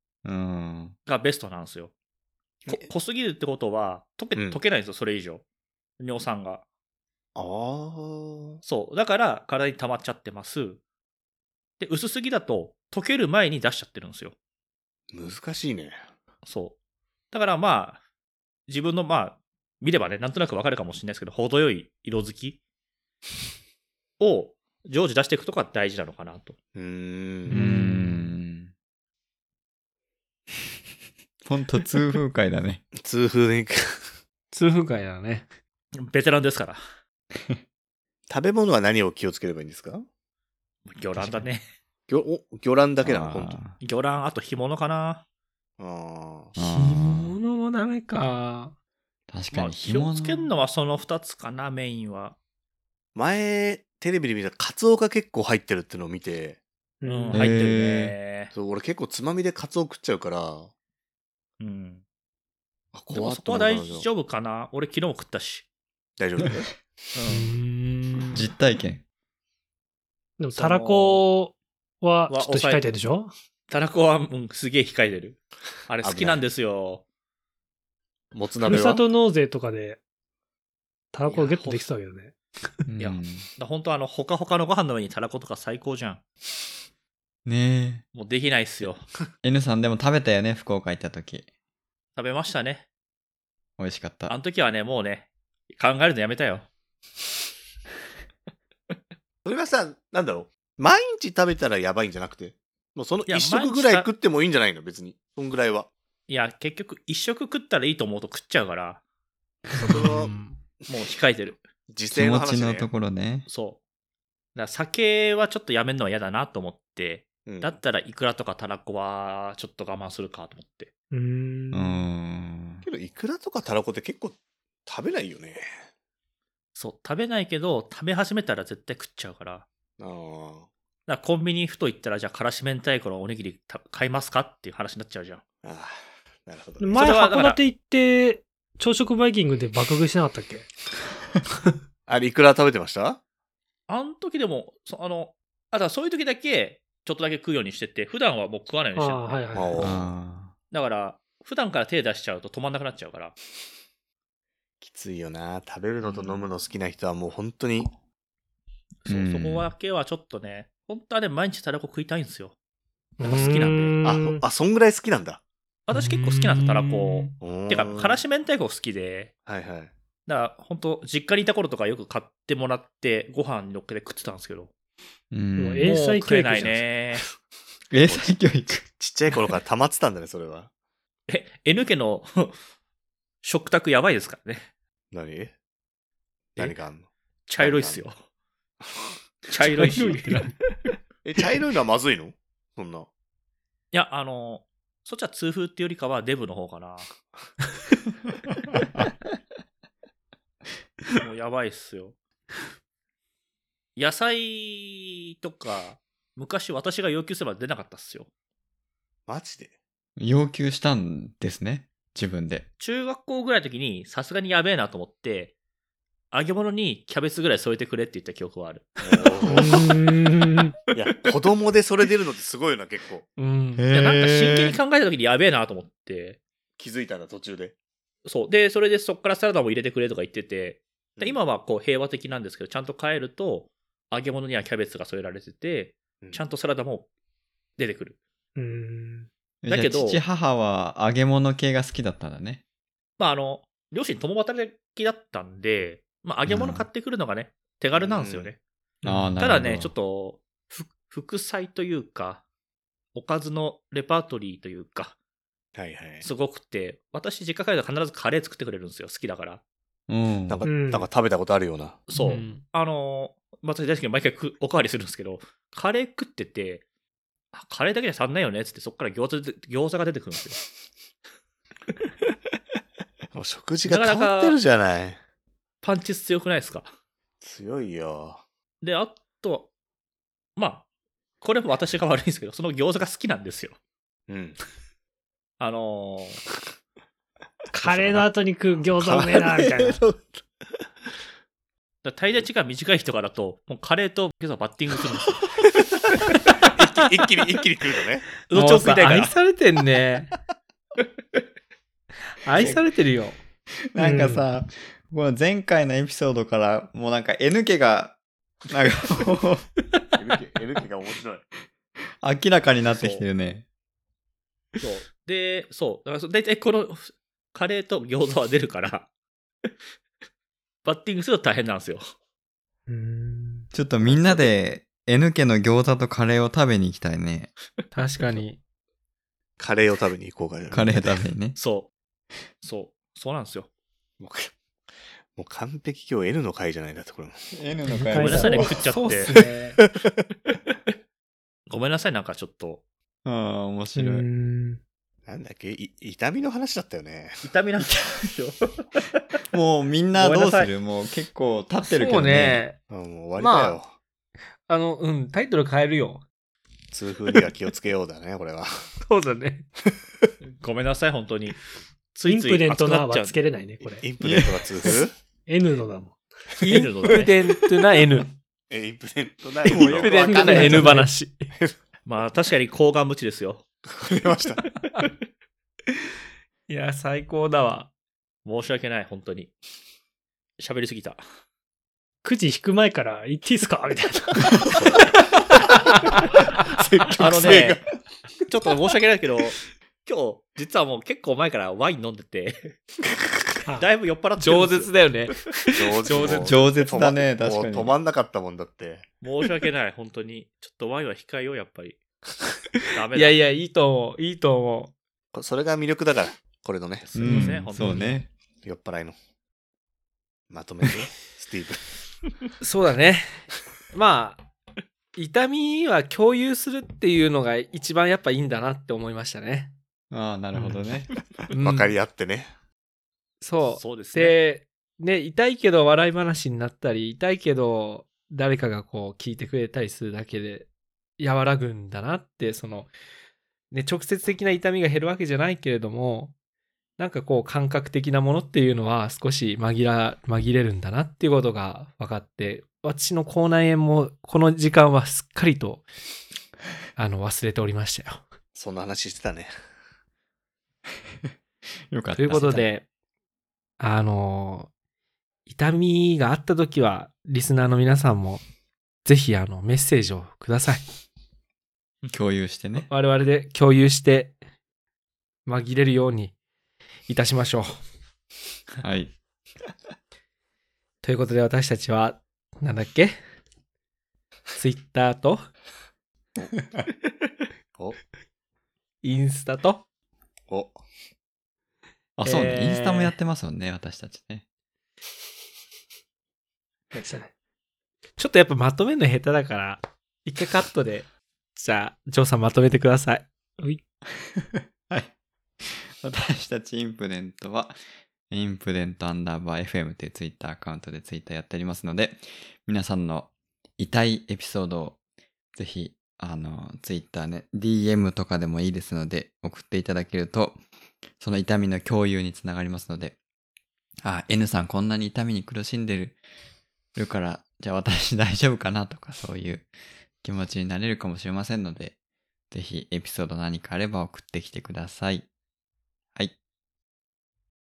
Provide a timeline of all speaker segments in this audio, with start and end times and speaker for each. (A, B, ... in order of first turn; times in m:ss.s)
0:00.2-0:01.0 A
0:01.1-0:01.9 B
0:02.7-0:05.4 B
0:04.4-0:04.6 C
0:06.0-0:06.6 B
0:07.4-0:08.6 C
0:08.6-0:10.8 B
0:11.8-0:14.3 B
0:15.1-0:16.0 C
0:16.4-0:16.8 B
0:17.3-0:18.0 B
0:18.7-0:22.6 B
0:24.2-0:26.6 B
0:26.8-0:27.6 C
0:27.5-0:28.3 D
0:27.5-0:28.7 A
0:31.4-0:32.8 A
0:33.0-0:34.1 C
0:34.5-0:35.5 D
0:36.0-0:36.8 B
0:38.3-0:40.1 C
0:40.9-0:41.6 B
0:41.2-0:41.4 A
0:42.1-0:43.6 C
0:43.0-0:43.8 A
0:43.8-0:45.2 B
0:45.8-0:46.5 C
0:46.6-0:47.4 A
0:46.6-0:48.7 D
0:49.3-0:50.5 A
0:49.5-0:52.4 B
0:53.2-0:56.6 C
0:57.0-0:57.5 E
0:57.0-0:58.5 B
0:57.3-0:58.1 A
0:58.5-1:00.7 C
1:01.6-1:02.0 B
1:02.9-1:04.1 C
1:03.1-1:05.6 B
1:06.2-1:06.8 C
1:07.1-1:07.5 B
1:07.3-1:08.5 D
1:08.3-1:09.0 A
1:10.4-1:13.3 E
1:10.5-1:11.2 B
1:12.3-1:12.9 B
1:13.7-1:17.0 B
1:16.0-1:16.4 C
1:18.3-1:19.0 C
1:18.7-1:20.0 E
1:21.1-1:22.3 E
1:21.3-1:21.9 B
1:22.9-1:23.4 A
1:23.0-1:26.2 B
1:27.5-1:28.0 A
1:28.1-1:29.0 B
1:29.4-1:31.4 A
1:32.2-1:32.9 B
1:33.8-1:34.4 A
1:34.3-1:36.7 B
1:39.4-1:45.9 C
1:43.3-1:44.1 B
1:46.3-1:49.0 B
1:49.8-1:50.4 C
1:49.8-1:50.6 D
1:50.9-1:51.6 B
1:51.9-1:52.9 C
1:52.1-1:53.5 A
1:53.5-1:53.8 B
1:54.6-2:00.9 B
1:57.4-1:57.8 C
2:01.1-2:02.0 E
2:01.7-2:02.8 A
2:02.8-2:05.7 C
2:06.8-2:09.7 B
2:10.0-2:10.7 C
2:11.1-2:15.4 B
2:15.6-2:17.2 C
2:16.8-2:20.7 E
2:16.9-2:17.6 B
2:22.1-2:23.2 C
2:23.9-2:29.4 B
2:29.0-2:29.9 E
2:29.5-2:30.1 C
2:29.8-2:30.5 A
2:30.7-2:33.4 B
2:34.8-2:37.9 C
2:39.0-2:42.6 B
2:39.1-2:39.7 A
2:43.2-2:44.4 E
2:43.2-2:43.9 B
2:44.0-2:45.4 C
2:45.9-2:49.3 B
2:45.9-2:47.4 D
2:47.4-2:48.2 C
2:49.5-2:49.9 C
2:50.3-2:54.7 B
2:55.3-2:55.9 A
2:55.6-2:56.9 E
2:55.8-2:57.2 B
2:57.9-2:58.9 A
2:58.8-3:00.7 C
3:01.3-3:02.6 B
3:03.4-3:04.7 B
3:05.1-3:05.5 C
3:06.6-3:07.1 C
3:07.5-3:08.2 B
3:07.6-3:08.0 C
3:09.5-3:10.4 B
3:09.6-3:10.6 D
3:11.2-3:13.1 C
3:13.9-3:17.1 B
3:21.2-3:22.2 B
3:24.0-3:28.3 B
3:29.3-3:29.8 C
3:30.2-3:32.7 A
3:32.8-3:35.6 B
3:36.3-3:38.9 B
3:39.0-3:39.9 C
3:39.4-3:40.7 E
3:40.9-3:43.3 C
3:43.4-3:43.9 D
3:43.8-3:44.8 A
3:43.9-3:46.4 B
3:46.8-3:47.7 C
3:48.2-3:57.1 B
3:57.8-3:58.2 B
3:58.6-3:59.3 E
3:59.6-4:02.6 A
3:59.7-4:00.2 B
4:03.2-4:08.6 B
4:06.5-4:06.9 A
4:07.9-4:08.5 C
4:09.0-4:09.4 D
4:09.0-4:09.9 A
4:09.4-4:12.4 B
4:13.1-4:15.2 B
4:15.8-4:16.3 C
4:16.2-4:19.6 B
4:20.1-4:20.6 A
4:20.5-4:22.0 C
4:20.6-4:21.1 E
4:22.1-4:26.8 B
4:22.2-4:22.6 D
4:27.5-4:30.6 B
4:33.3-4:35.2 C
4:33.9-4:34.6 B
4:35.8-4:36.9 B
4:37.4-4:38.4 C
4:38.8-4:39.7 B
4:40.6-4:40.9 B
4:41.4-4:43.8 B
4:44.3-4:44.6 C
4:45.6-4:46.4 B
4:47.7-4:50.0 E
4:47.8-4:48.2 C
4:49.0-4:50.4 C
4:52.0-4:55.4 B
4:56.8-4:58.3 C
4:58.4-4:59.4 B
4:58.5-5:00.3 D
5:02.4-5:03.4 D
5:03.9-5:08.2 A
5:04.0-5:04.4 E
5:08.7-5:09.7 A
5:10.2-5:11.4 C
5:12.2-5:13.6 A
5:12.9-5:13.2 B
5:14.8-5:19.1 B
5:20.8-5:22.0 B
5:22.9-5:23.7 E
5:23.7-5:27.5 A
5:27.9-5:28.6 D
5:29.6-5:31.3 C
5:30.7-5:31.6 A
5:31.6-5:31.9 B
5:32.6-5:33.7 B
5:34.2-5:34.6 C
5:35.3-5:37.4 C
5:37.5-5:38.9 A
5:37.9-5:38.5 E
5:38.2-5:39.3 B
5:38.6-5:39.8 D
5:41.7-5:42.8 B
5:43.2-5:44.3 A
5:44.0-5:44.8 E
5:45.3-5:47.5 C
5:47.4-5:49.4 B
5:49.5-5:52.6 A
5:50.1-5:50.7 B
5:51.8-5:52.8 D
5:52.9-5:53.9 C
5:53.4-5:53.8 D
5:54.7-5:56.2 D
5:56.9-5:58.8 C
5:59.0-5:59.7 D
6:00.6-6:01.6 B
6:02.1-6:03.4 B
6:02.3-6:04.1 E
6:03.8-6:05.1 C
6:05.5-6:06.2 E
6:06.6-6:08.3 D
6:06.6-6:07.4 B
6:06.7-6:07.2 C
6:08.7-6:11.8 C
6:09.6-6:11.5 D
6:09.7-6:11.1 E
6:12.1-6:13.7 B
6:13.9-6:14.6 C
6:16.7-6:17.9 D
6:18.4-6:19.5 B
6:20.6-6:21.2 B
6:22.2-6:24.6 E
6:24.6-6:25.2 C
6:25.7-6:26.2 D
6:26.7-6:27.8 C
6:27.2-6:27.8 B
6:28.5-6:32.8 B
6:33.7-6:35.1 B
6:34.4-6:36.6 D
6:35.7-6:39.1 C
6:36.3-6:37.9 A
6:39.2-6:42.0 B
6:42.9-6:43.4 B
6:43.1-6:44.9 D
6:45.3-6:47.1 C
6:47.1-6:48.2 B
6:47.2-6:48.3 A
6:47.2-6:48.2 D
6:48.6-6:49.2 C
6:50.5-6:51.8 C
6:52.6-6:54.4 D
6:55.2-6:59.7 D
7:00.1-7:01.1 A
7:01.5-7:01.9 D
7:01.5-7:02.5 C
7:03.4-7:10.7 D
7:03.7-7:04.4 B
7:11.2-7:12.9 D
7:13.7-7:16.3 D
7:17.0-7:25.8 D
7:27.0-7:28.2 D
7:28.6-7:29.5 C
7:31.9-7:32.7 A
7:32.2-7:32.9 D
7:33.8-7:34.7 D
7:35.5-7:38.4 D
7:39.0-7:40.8 D
7:42.1-7:42.9 A
7:42.8-7:44.4 D
7:45.5-7:46.3 D
7:47.1-7:47.8 D
7:48.8-7:49.1 A
7:51.0-7:53.2 D
7:54.5-7:55.5 D
7:59.0-7:59.8 D
8:00.5-8:00.8 C
8:02.2-8:04.4 A
8:02.2-8:03.2 D
8:06.9-8:07.3 E
8:08.2-8:13.3 D
8:14.2-8:15.1 A
8:15.6-8:17.8 A
8:18.3-8:25.0 A
8:25.6-8:30.6 A
8:31.2-8:33.2 A
8:34.0-8:36.2 A
8:37.0-8:39.7 A
8:40.2-8:41.9 A
8:42.5-8:45.3 A